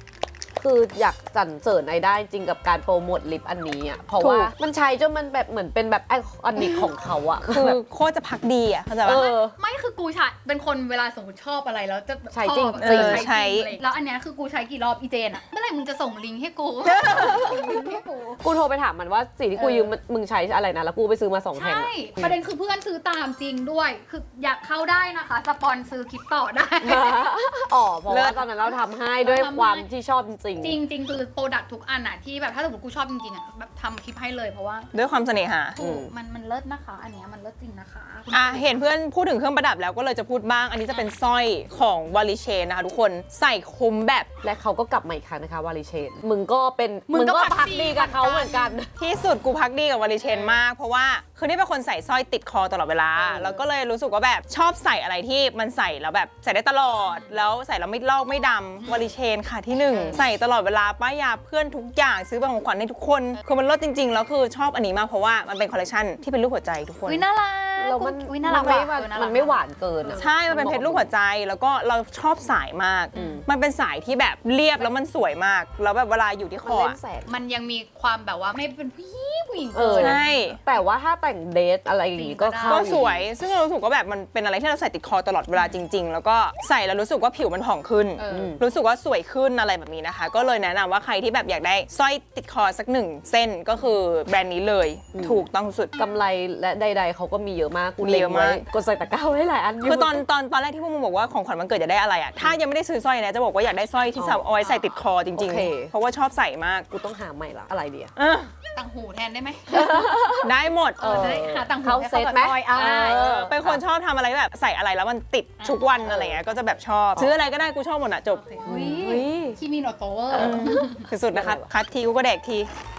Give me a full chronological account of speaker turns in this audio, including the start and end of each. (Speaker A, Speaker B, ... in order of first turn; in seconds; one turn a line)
Speaker A: 0.6-7.8
Speaker B: 4.2-4.5
Speaker B: 7.4-9.2
Speaker A: 9.0-9.6
Speaker C: 9.1-18.4
Speaker A: 12.3-13.2
Speaker B: 12.8-13.8
Speaker B: 16.9-17.4
Speaker A: 17.1-22.4
Speaker C: 19.6-19.9
Speaker C: 21.5-27.3
Speaker A: 26.8-30.8
Speaker B: 28.1-28.4
Speaker C: 28.6-29.9
Speaker C: 30.6-34.9
Speaker B: 34.9-35.8
Speaker C: 35.8-38.7
Speaker A: 35.8-36.1
Speaker B: 38.3-44.3
Speaker A: 44.4-48.9
Speaker C: 47.1-48.8
Speaker B: 49.0-67.2
Speaker C: 50.2-50.6
Speaker C: 53.1-53.6
Speaker C: 57.0-57.4
Speaker C: 58.8-59.1
Speaker A: 59.9-60.2
Speaker C: 60.0-60.2
Speaker C: 67.0-70.2
Speaker A: 67.8-71.1
Speaker B: 70.2-77.0
Speaker C: 73.1-73.4
Speaker A: 73.1-73.4
Speaker A: 76.6-77.3
Speaker C: 77.2-80.8
Speaker A: 79.7-83.2
Speaker B: 79.9-80.6
Speaker C: 82.1-83.0
Speaker B: 82.7-95.9
Speaker C: 85.5-85.8
Speaker C: 88.2-88.6
Speaker A: 88.3-88.6
Speaker A: 95.1-95.5
Speaker A: 96.0-100.2
Speaker B: 98.0-98.6
Speaker B: 99.8-106.9
Speaker A: 104.2-104.5
Speaker C: 104.6-105.0
Speaker A: 105.3-105.9
Speaker A: 106.9-108.1
Speaker B: 108.2-108.5
Speaker C: 108.7-110.2
Speaker A: 109.7-113.8
Speaker B: 110.4-111.2
Speaker C: 111.0-113.4
Speaker B: 113.1-118.4
Speaker C: 115.6-115.9
Speaker A: 116.0-116.4
Speaker C: 118.3-121.1
Speaker A: 118.6-119.6
Speaker A: 120.3-121.7
Speaker B: 120.3-122.7